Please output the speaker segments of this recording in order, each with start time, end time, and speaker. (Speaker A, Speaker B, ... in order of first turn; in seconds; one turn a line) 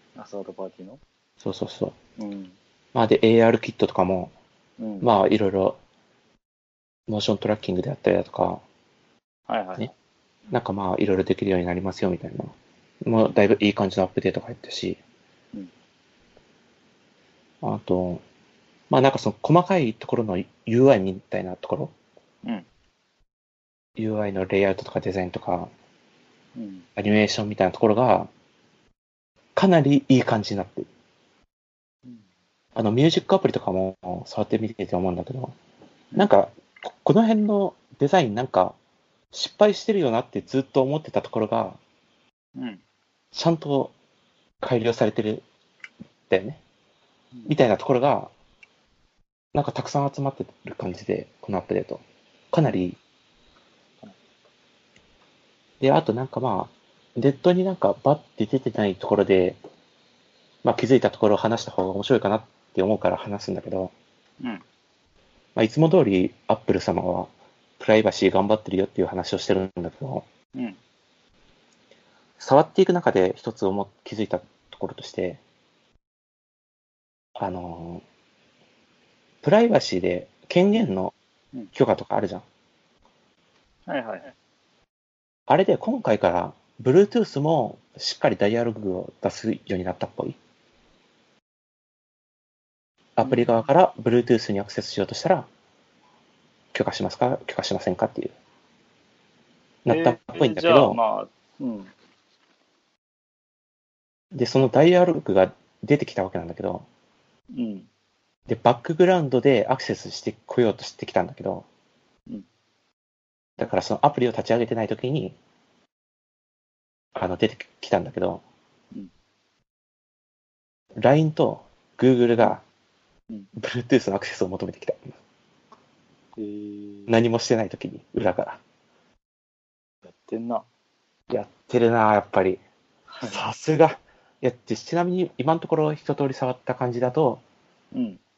Speaker A: 0.1-1.0
Speaker B: 1.4-1.9
Speaker A: 2.2-2.6
Speaker B: 2.9-4.3
Speaker A: 4.8-5.1
Speaker B: 5.0-5.8
Speaker B: 7.1-8.6
Speaker A: 9.5-9.9
Speaker B: 10.5-15.0
Speaker B: 17.6-18.2
Speaker B: 18.9-21.9
Speaker B: 24.0-25.7
Speaker A: 26.6-26.9
Speaker B: 27.0-28.3
Speaker B: 29.6-30.9
Speaker B: 32.7-35.5
Speaker B: 36.1-38.8
Speaker B: 39.3-41.8
Speaker A: 42.6-42.8
Speaker B: 43.3-43.9
Speaker B: 44.6-45.4
Speaker B: 46.3-46.6
Speaker B: 47.5-48.3
Speaker B: 49.5-53.0
Speaker B: 55.8-59.6
Speaker B: 60.6-63.9
Speaker B: 65.5-70.2
Speaker B: 72.4-75.4
Speaker B: 77.3-78.0
Speaker B: 79.4-81.1
Speaker B: 81.7-82.4
Speaker A: 83.9-84.3
Speaker B: 85.5-90.4
Speaker B: 93.2-95.5
Speaker A: 93.2-93.7
Speaker B: 96.7-98.3
Speaker B: 99.8-101.0
Speaker A: 99.9-101.9
Speaker B: 104.3-106.8
Speaker A: 107.5-107.9
Speaker B: 108.5-111.7
Speaker B: 113.6-115.3
Speaker B: 117.1-118.4
Speaker B: 121.0-122.6
Speaker B: 123.5-125.2
Speaker A: 126.4-127.2
Speaker B: 127.1-128.6
Speaker A: 130.1-130.7
Speaker B: 131.3-132.6
Speaker A: 133.1-133.4
Speaker B: 133.2-137.4
Speaker A: 137.9-138.2